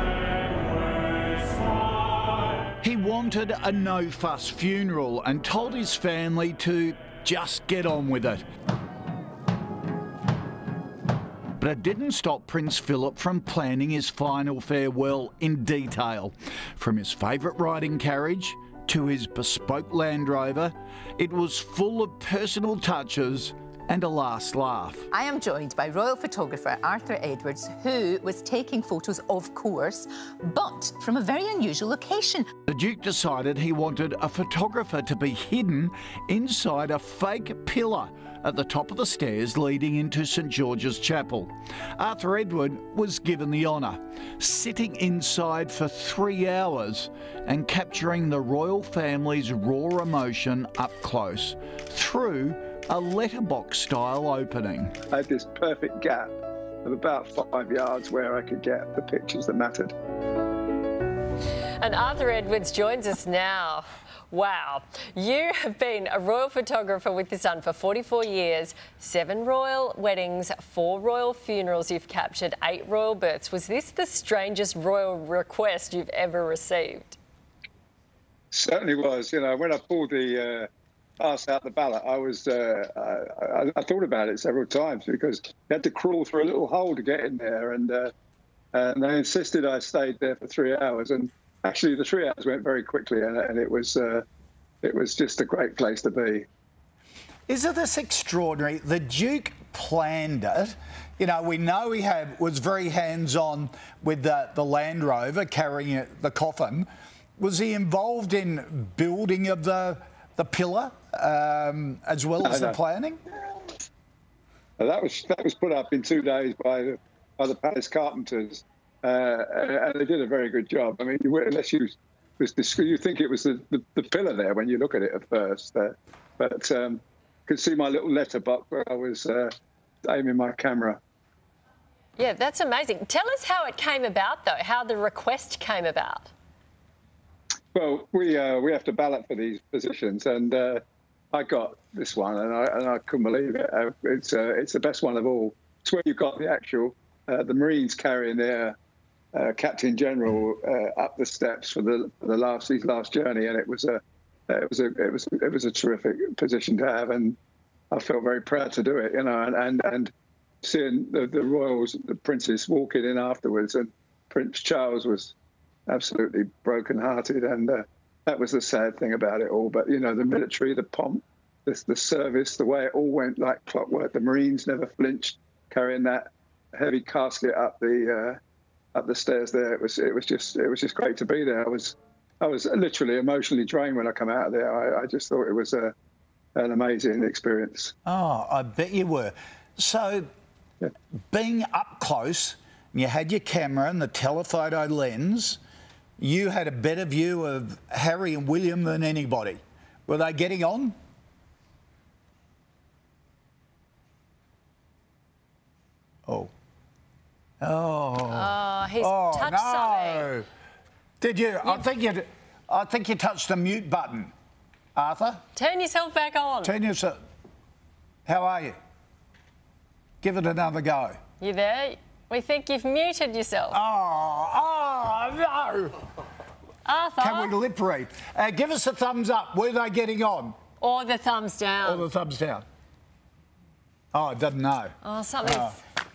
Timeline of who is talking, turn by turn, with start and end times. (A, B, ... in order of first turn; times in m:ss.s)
0:02.8-0:08.4 A
0:11.6-0:25.1 A
0:25.1-0:32.5 B
0:32.7-0:55.0 A
0:55.1-0:59.9 C
1:01.8-1:17.2 D
1:18.5-1:20.7 C
1:21.2-1:28.1 C
1:28.7-1:34.2 C
1:34.8-1:36.4 C
1:37.5-1:46.9 A
1:47.4-1:53.2 A
1:52.4-1:52.8 C
1:54.8-2:09.5 C
2:10.1-2:11.0 C
2:12.2-2:16.3 D
2:17.7-2:20.8 C
2:21.3-2:28.8 C
2:29.3-2:37.4 C
2:37.9-2:40.1 C
2:40.6-2:45.3 C
2:45.9-2:58.4 C
2:58.9-3:05.9 C
3:06.6-3:07.9 C
3:08.0-3:10.3 A
3:11.3-3:15.6 A
3:16.2-3:20.9 A
3:26.2-3:26.5 A
3:27.6-3:30.4 A
3:28.3-3:30.3 D
3:31.2-3:34.3 A
3:34.9-3:35.4 A
3:35.5-3:36.7 D
3:36.6-3:37.2 A
3:38.2-3:38.8 A
3:40.2-3:41.2 A
3:41.4-3:43.8 D
3:43.7-3:46.0 A
3:46.8-3:47.5 D
3:47.2-3:50.6 A
3:50.8-3:52.1 D
3:51.8-3:52.6 A
3:54.1-3:55.8 A
3:55.0-3:55.8 D